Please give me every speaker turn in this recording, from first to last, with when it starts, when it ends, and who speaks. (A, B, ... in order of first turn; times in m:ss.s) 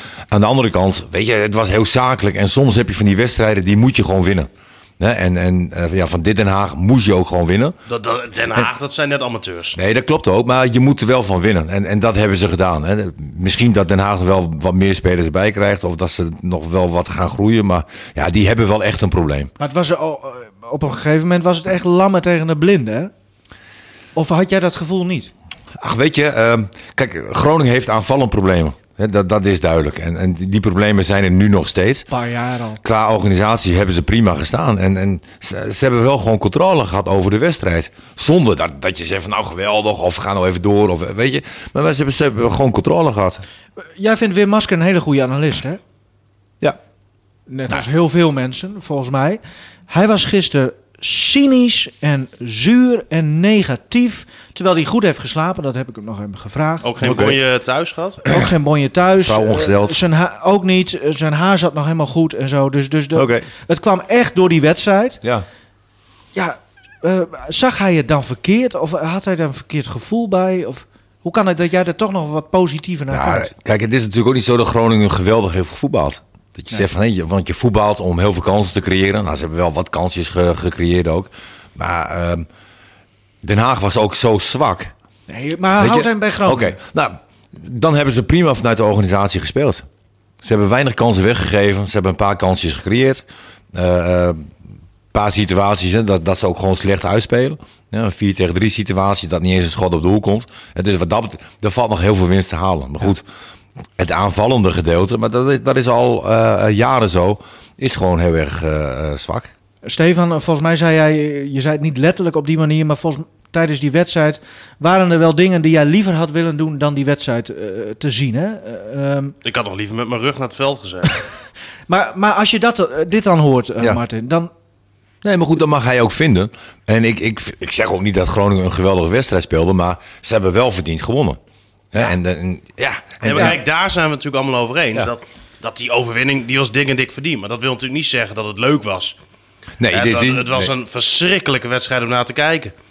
0:00.3-0:04.5 A
0:05.0-0:07.8 A
0:07.9-0:09.8 B
0:09.7-0:19.5 A
0:19.6-0:23.1 C
0:24.1-0:25.3 C
0:25.8-0:32.1 A
0:32.1-0:32.8 C
0:32.8-0:43.4 A
0:43.8-0:45.8 C
0:47.5-0:56.9 C
0:56.8-0:58.2 B
0:57.0-0:57.4 A
0:58.3-1:05.2 C
0:59.2-1:00.0 A
1:03.1-1:03.4 A
1:06.3-1:13.5 C
1:13.1-1:22.5 A
1:23.4-1:24.9 A
1:25.3-1:26.8 C
1:25.8-1:29.8 A
1:30.4-1:34.5 A
1:35.1-1:43.2 A
1:44.0-1:49.5 A
1:49.8-1:59.4 C
1:59.4-2:01.2 B
2:01.9-2:04.5 C
2:05.2-2:11.4 A
2:11.9-2:13.6 A
2:13.2-2:19.2 B
2:19.8-2:20.7 A
2:19.9-2:22.7 B